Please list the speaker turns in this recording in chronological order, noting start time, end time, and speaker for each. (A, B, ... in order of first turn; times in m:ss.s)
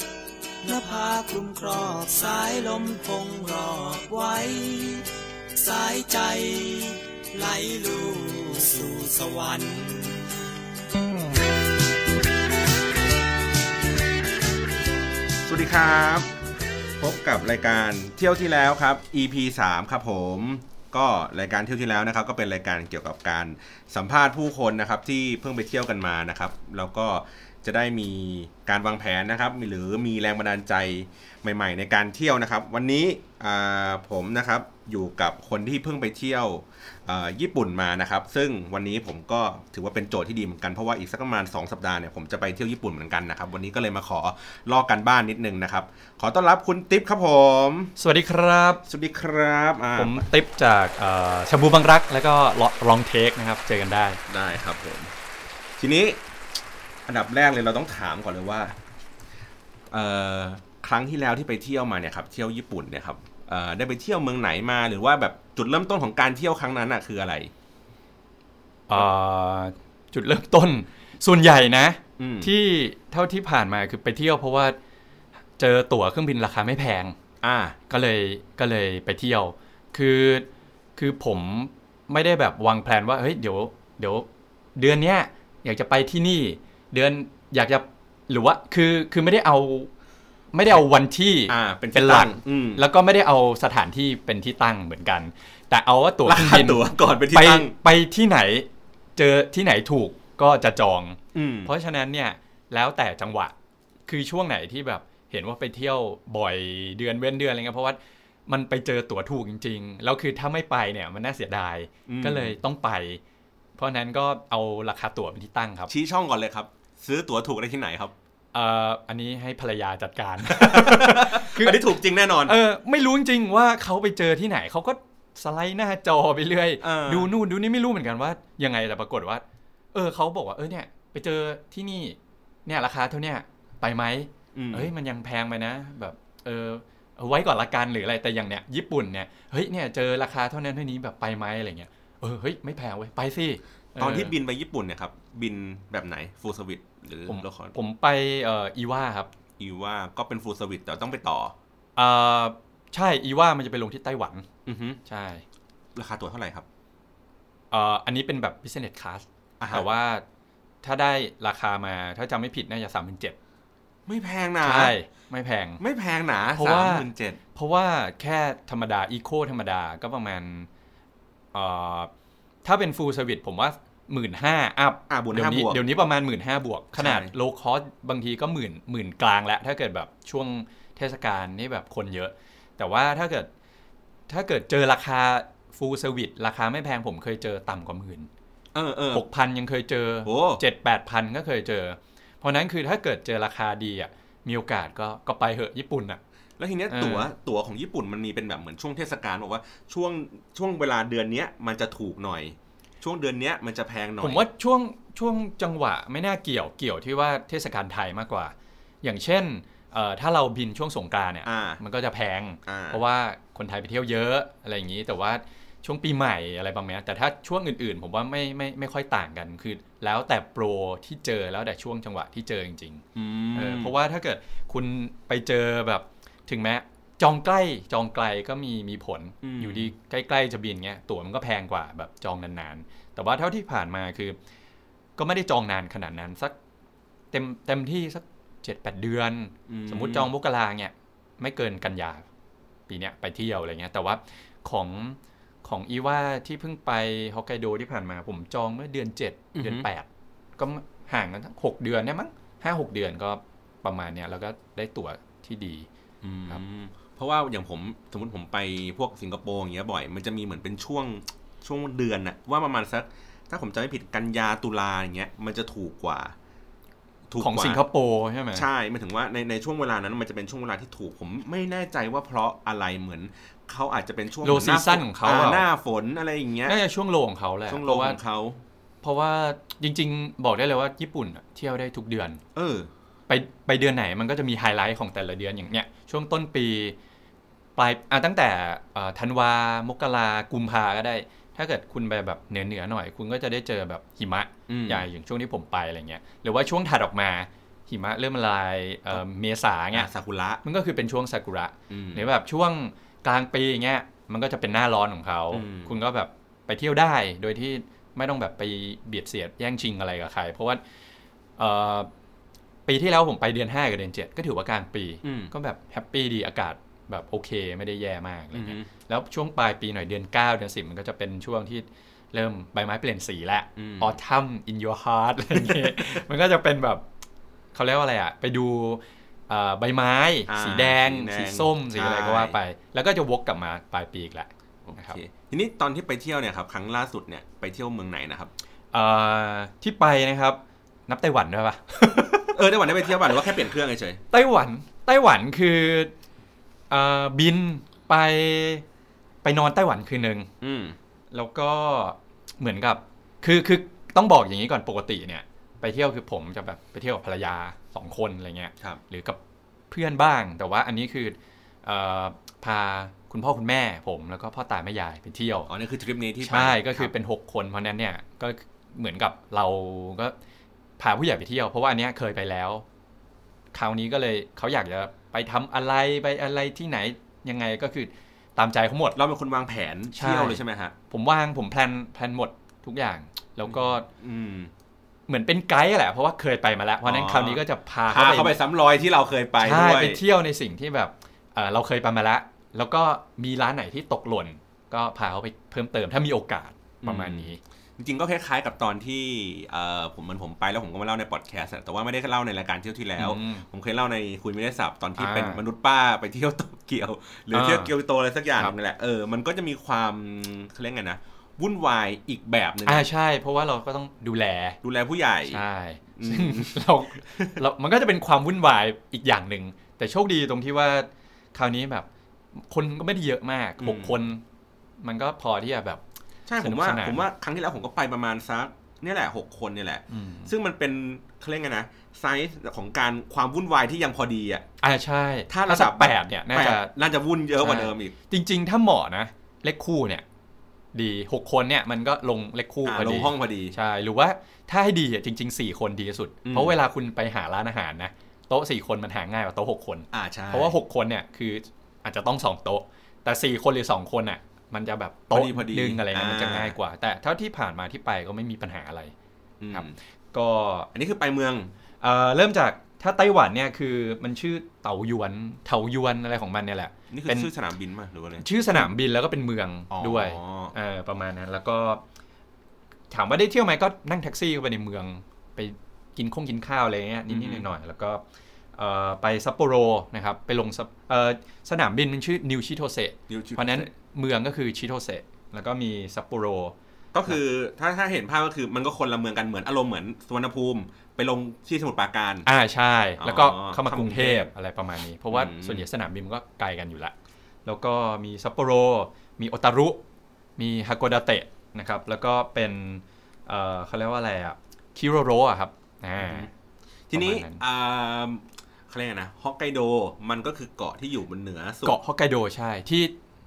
0:00.6-0:10.4 A
0:15.5-0:16.3 B
0:17.0-0:48.0 B
0:48.0-0:48.8 C
0:48.9-0:50.2 B
0:50.0-0:54.2 C
0:54.3-0:55.1 B
0:55.8-0:56.2 B
0:57.1-0:58.8 B
0:59.9-1:07.5 B
1:08.9-1:14.8 C
1:12.2-1:12.5 B
1:15.6-1:17.2 C
1:17.4-1:17.8 B
1:17.9-1:29.9 C
1:30.5-1:43.5 C
1:31.5-1:32.8 B
1:36.3-1:37.7 B
1:41.3-1:41.7 B
1:44.1-1:53.2 C
1:52.1-1:52.6 B
1:53.8-1:55.9 C
1:55.9-1:58.2 B
1:58.5-2:01.8 C
2:00.4-2:02.6 B
2:02.4-2:09.4 C
2:06.8-2:07.3 B
2:09.9-2:24.4 C
2:14.5-2:14.9 B
2:24.0-2:27.7 B
2:27.3-2:29.3 C
2:29.6-2:31.5 B
2:32.0-2:34.5 C
2:34.7-2:35.0 B
2:35.0-2:35.4 C
2:36.0-2:36.7 B
2:37.7-2:40.2 C
2:39.6-2:39.9 B
2:40.8-2:43.4 C
2:44.1-2:44.9 B
2:44.6-2:45.8 C
2:45.8-2:47.4 B
2:46.6-2:50.7 C
2:51.5-2:52.1 C
2:52.6-3:03.5 C
2:55.1-2:55.8 B
2:57.0-2:57.3 B
3:04.3-3:08.3 C
3:08.7-3:09.2 B
3:09.1-3:16.2 C
3:10.3-3:10.6 B
3:16.6-3:24.4 B
3:16.9-3:17.3 C
3:24.2-3:43.0 C
3:31.4-3:31.8 B
3:32.7-3:33.0 B
3:43.2-3:43.9 B
3:43.6-3:54.4 C
3:49.4-3:49.9 B
3:55.2-3:56.6 C
3:57.3-4:02.3 C
3:59.7-4:00.3 B
4:02.9-4:15.9 C
4:09.6-4:09.9 B
4:16.2-4:26.4 B
4:27.3-4:27.8 B
4:27.4-4:28.7 C
4:28.5-4:36.8 B
4:34.4-4:35.6 C
4:36.7-4:38.2 C
4:37.7-4:38.6 B
4:39.0-4:42.4 C
4:42.6-4:42.9 B
4:43.3-4:47.0 C
4:47.8-5:00.1 C
4:54.7-4:55.1 B
4:59.9-5:00.6 B
5:00.6-5:10.8 C
5:01.9-5:02.3 B
5:05.5-5:05.9 B
5:11.6-5:12.1 C
5:12.9-5:27.0 C
5:15.2-5:15.5 B
5:18.5-5:18.9 B
5:23.8-5:24.2 B
5:25.5-5:26.2 B
5:27.7-5:35.2 C
5:30.5-5:32.6 B
5:34.9-5:38.5 B
5:38.9-5:42.6 C
5:42.5-5:44.2 B
5:44.3-5:46.1 C
5:46.9-5:48.8 C
5:49.4-5:50.5 C
5:50.6-5:51.0 B
5:51.3-5:59.4 C
5:59.9-6:05.7 C
6:05.7-6:07.1 B
6:06.4-6:10.4 C
6:11.0-6:12.8 C
6:13.7-6:19.2 C
6:19.2-6:21.0 B
6:20.1-6:24.1 C
6:23.7-6:24.7 B
6:25.3-6:28.6 C
6:27.0-6:30.2 B
6:29.6-6:37.6 C
6:37.0-6:53.1 B
6:43.2-6:43.7 C
6:45.2-6:45.6 C
6:47.5-6:47.9 C
6:52.9-6:54.8 C
6:54.8-6:55.6 B
6:55.5-7:02.1 C
6:56.2-6:57.6 B
7:02.7-7:04.4 C
7:03.8-7:04.2 B
7:05.0-7:06.0 C
7:06.5-7:14.7 B
7:06.6-7:07.3 C
7:10.1-7:10.5 C
7:14.8-7:16.9 C
7:15.5-7:18.1 B
7:17.6-7:20.2 C
7:20.9-7:39.1 C
7:22.9-7:23.8 B
7:26.4-7:26.8 B
7:30.1-7:30.8 B
7:35.3-7:36.8 B
7:39.6-7:40.0 B
7:39.7-7:40.9 C
7:40.9-7:41.7 B
7:42.0-7:47.5 C
7:47.1-7:48.9 B
7:48.4-7:52.0 C
7:49.9-7:50.7 B
7:53.1-7:58.2 C
7:57.3-7:57.7 B
7:58.8-8:06.8 C
8:03.3-8:03.9 B
8:07.1-8:12.5 B
8:12.4-8:17.1 C
8:13.2-8:14.5 B
8:15.3-8:15.9 B
8:17.7-8:20.0 C
8:20.6-8:26.5 C
8:26.2-8:26.5 B
8:27.1-8:32.0 B
8:27.1-8:27.6 C
8:31.8-8:33.2 C